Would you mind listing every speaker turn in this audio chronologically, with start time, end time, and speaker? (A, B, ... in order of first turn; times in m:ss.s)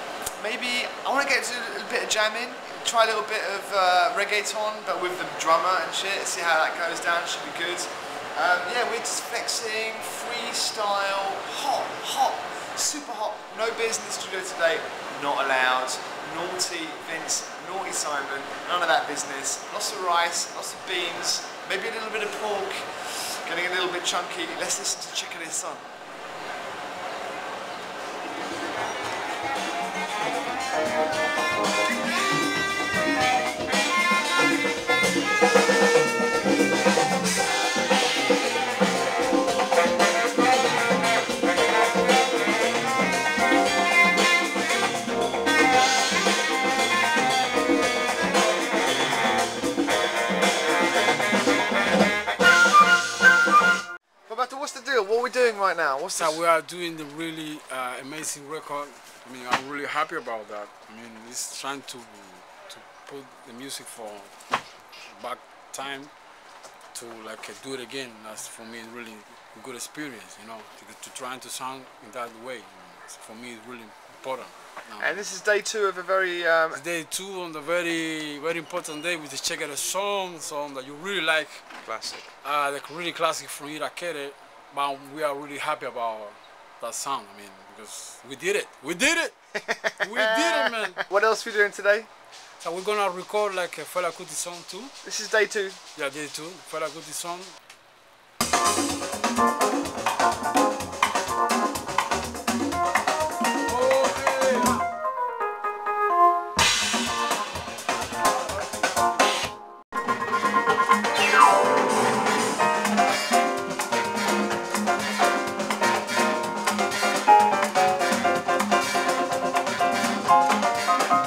0:00.2-0:25.8 A
0:54.3-0:56.4 A
0:56.2-1:04.3 B
1:05.1-1:06.1 B
1:06.9-1:15.2 B
1:15.0-1:16.8 A
1:16.7-1:21.6 B
1:21.8-1:22.3 A
1:22.4-1:29.4 B
1:29.6-1:32.1 A
1:30.0-1:31.0 B
1:32.6-1:34.9 B
1:35.0-1:35.8 A
1:36.0-1:37.5 B
1:43.6-1:44.8 B